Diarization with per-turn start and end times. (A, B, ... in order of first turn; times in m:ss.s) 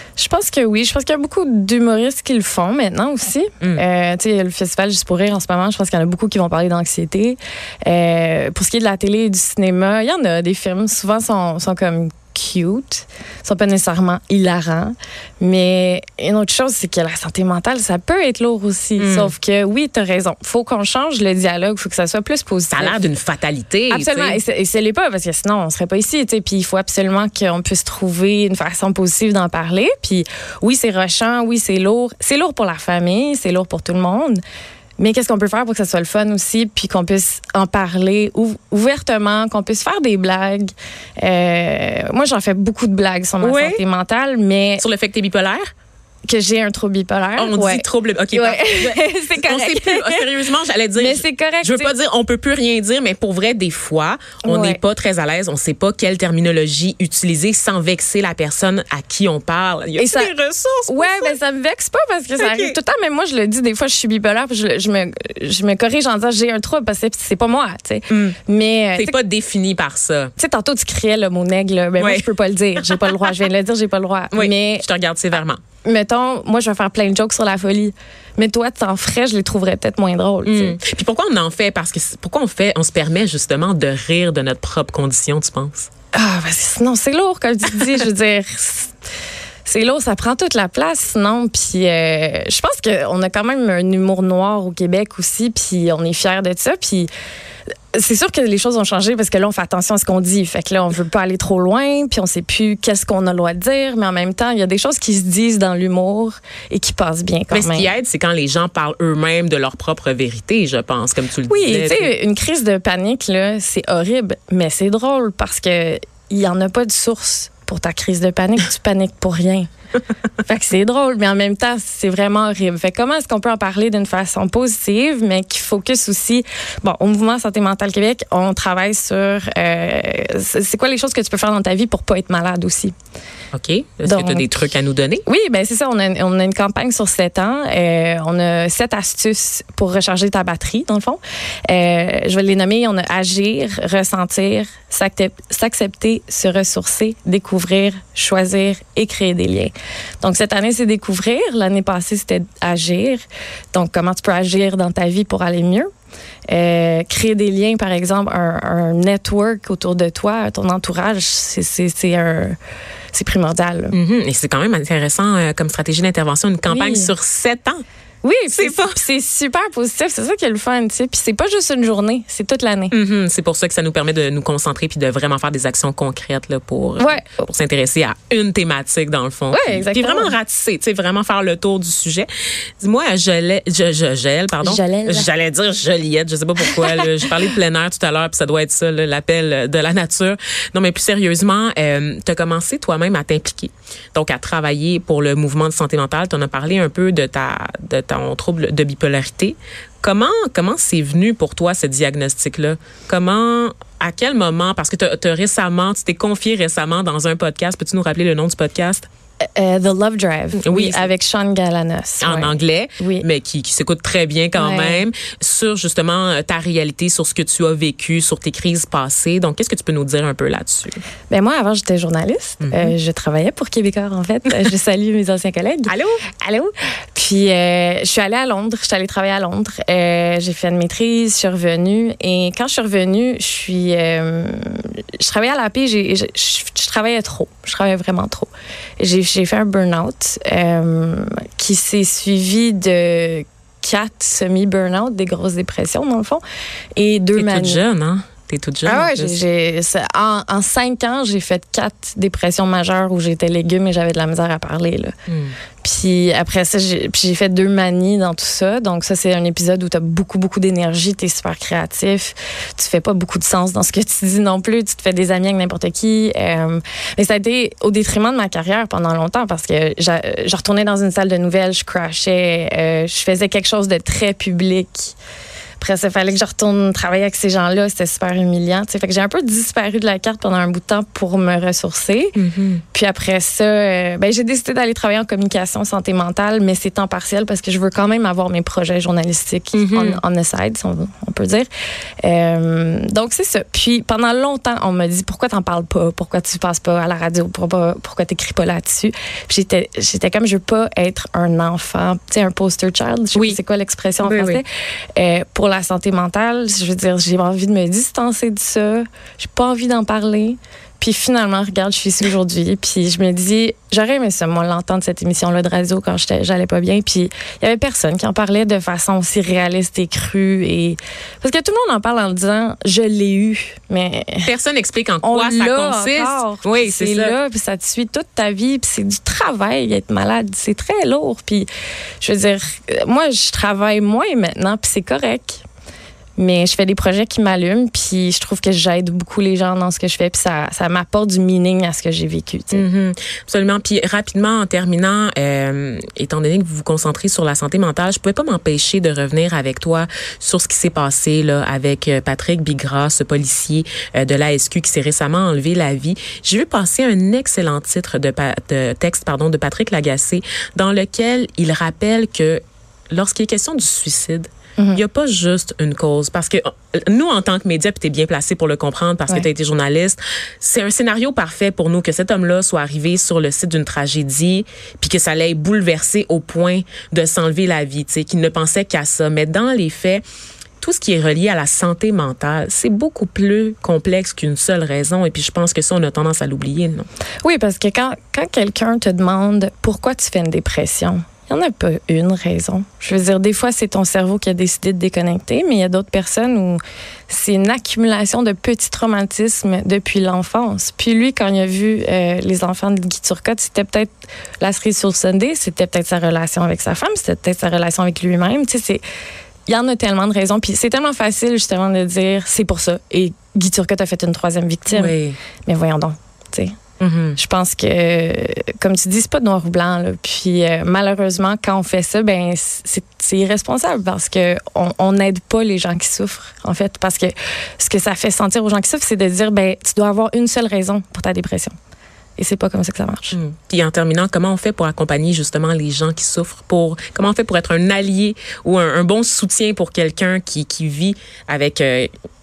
0:00.2-0:23.1 A
0:19.0-0:19.3 B
0:22.7-0:24.4 B
0:23.9-0:34.4 A
0:35.0-0:44.8 A
0:43.4-0:43.8 B
0:44.8-0:45.7 B
0:46.2-0:50.3 A
0:47.4-1:01.4 B
0:51.0-0:51.9 A
0:54.4-0:54.8 A
1:00.0-1:00.3 A
1:00.9-1:09.2 A
1:02.4-1:02.8 B
1:08.1-1:08.4 B
1:08.9-1:10.3 B
1:10.4-1:14.9 A
1:12.0-1:13.3 B
1:14.3-1:15.6 B
1:15.8-1:20.8 A
1:20.4-1:25.9 B
1:26.1-1:28.9 A
1:29.6-1:37.1 A
1:37.9-1:47.9 A
1:47.5-1:52.1 B
1:51.5-1:59.7 A
2:00.4-2:12.9 A
2:13.5-2:15.2 B
2:14.0-2:14.6 A
2:15.2-2:35.9 A
2:36.5-2:42.6 A
2:43.1-2:44.0 A
2:43.9-2:47.8 B
2:46.7-2:47.1 A
2:48.2-2:52.9 A
2:48.5-2:49.0 B
2:52.9-3:02.3 B
2:57.0-2:57.3 A
2:59.5-3:00.3 A
3:02.8-3:29.1 B
3:04.6-3:05.3 A
3:06.7-3:07.3 A
3:29.4-3:33.3 A
3:30.6-3:31.1 B
3:32.2-3:41.0 B
3:34.6-3:35.0 A
3:41.3-4:06.4 A
3:42.6-3:43.0 B
3:45.9-3:46.2 B
4:07.0-4:07.8 A
4:07.3-4:09.4 B
4:08.8-4:15.1 A
4:15.3-4:15.6 B
4:15.8-4:35.2 A
4:35.8-4:42.4 A
4:42.4-4:42.8 B
4:42.9-4:51.7 A
4:49.7-4:50.2 B
4:52.2-5:24.5 A
5:04.2-5:04.6 B
5:24.4-5:27.4 B
5:25.2-5:31.7 A
5:32.2-5:35.6 A
5:36.4-5:42.8 A
5:42.7-6:20.2 B
6:04.8-6:05.0 A
6:20.8-6:27.1 B
6:27.4-6:49.0 A
6:49.7-6:55.1 A
6:54.9-6:55.4 B
6:55.6-6:56.8 A
6:57.0-6:57.4 B
6:57.4-7:11.8 A
7:12.4-7:13.4 A
7:13.3-7:22.1 B